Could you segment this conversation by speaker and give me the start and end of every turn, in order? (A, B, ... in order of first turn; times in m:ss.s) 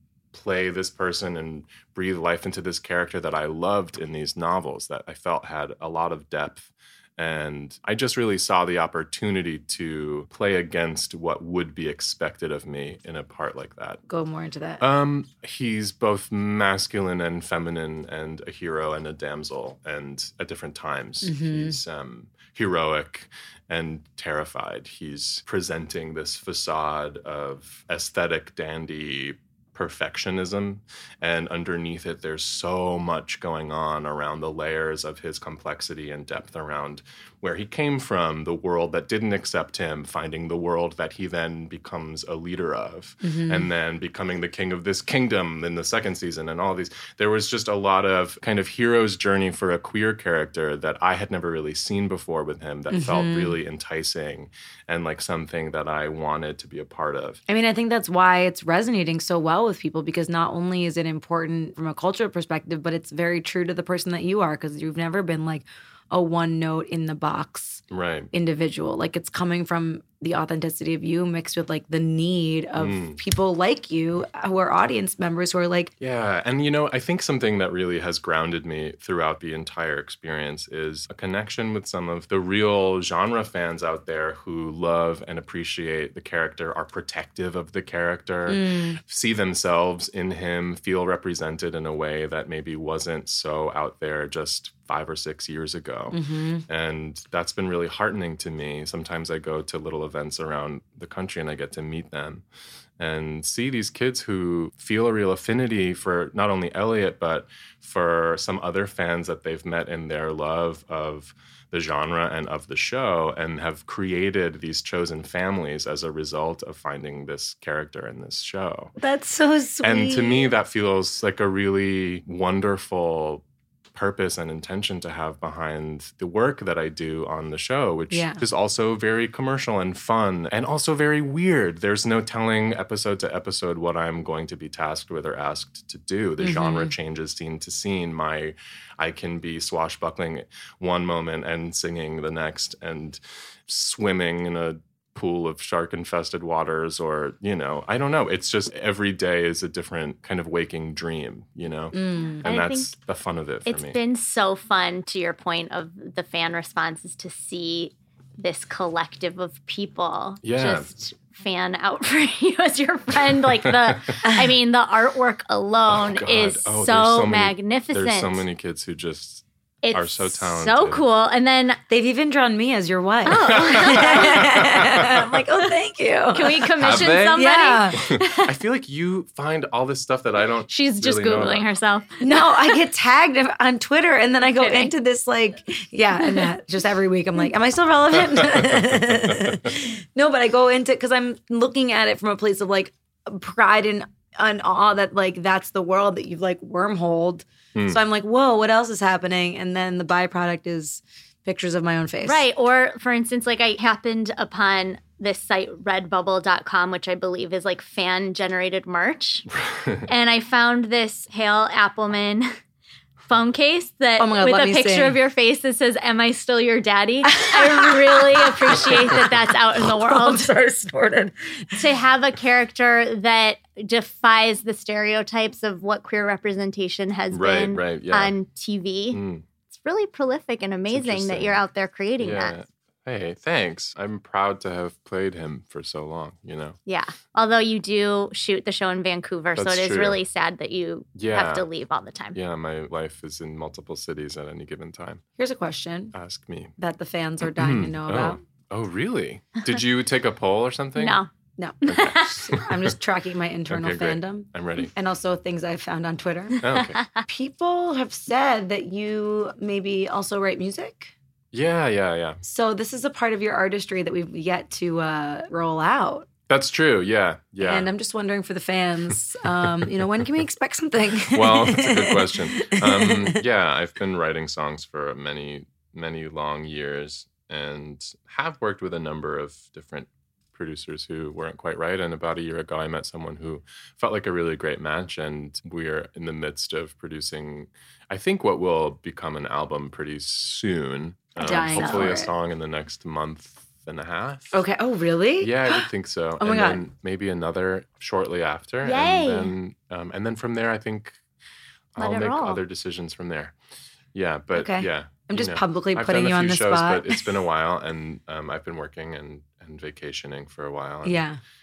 0:00.3-0:14.0 A
0:14.1-0:14.8 B
0:14.8-0:57.4 A
0:21.2-0:21.8 B
0:43.2-0:43.7 B
0:52.9-0:53.6 B
0:57.5-1:15.9 B
1:07.9-1:08.3 A
1:12.8-1:13.2 A
1:16.0-1:42.4 A
1:28.5-1:29.0 B
1:36.1-1:36.6 B
1:43.0-1:58.9 A
1:59.0-2:00.5 B
1:59.8-2:03.4 A
2:03.9-2:34.0 A
2:08.1-2:08.4 B
2:16.4-2:16.9 B
2:31.9-2:32.4 B
2:32.4-2:32.9 C
2:33.6-2:48.4 C
2:40.4-2:40.9 A
2:43.7-2:44.0 A
2:45.9-2:51.0 A
2:49.8-2:51.8 C
2:51.9-2:56.7 B
2:53.2-2:54.5 C
2:53.5-2:55.4 A
2:56.3-2:58.5 C
2:56.8-3:01.7 A
2:57.3-2:58.0 B
3:00.7-3:02.7 C
3:02.2-3:22.4 B
3:04.6-3:04.9 C
3:22.2-3:29.5 C
3:29.8-3:30.0 A
3:30.0-3:32.5 C
3:33.3-3:40.5 C
3:34.2-3:35.2 B
3:37.4-3:41.8 B
3:41.8-3:52.6 C
3:47.3-3:48.3 A
3:49.1-3:49.4 A
3:50.9-3:51.6 A
3:52.2-3:56.8 A
3:56.8-4:02.4 C
3:59.6-4:00.2 A
4:01.1-4:01.6 A
4:02.3-4:05.2 A
4:05.4-4:06.1 B
4:06.1-4:06.7 A
4:06.8-4:08.4 B
4:07.5-4:11.2 A
4:11.0-4:11.3 C
4:11.6-4:16.6 B
4:11.8-4:12.5 C
4:11.8-4:12.9 A
4:13.7-4:14.9 A
4:16.6-4:17.0 A
4:16.8-4:17.2 C
4:17.2-4:21.1 B
4:21.5-4:22.4 A
4:22.4-4:26.3 B
4:26.5-4:27.9 A
4:27.6-4:33.4 B
4:29.6-4:30.0 A
4:31.3-4:54.6 A
4:51.4-4:52.3 B
4:51.4-4:52.1 C
4:54.5-4:55.8 B
4:55.4-5:01.2 A
4:56.4-4:56.8 B
4:58.8-4:59.5 C
5:01.9-5:03.5 A
5:02.0-5:02.6 C
5:04.1-5:11.2 A
5:04.5-5:07.2 B
5:11.0-5:11.4 B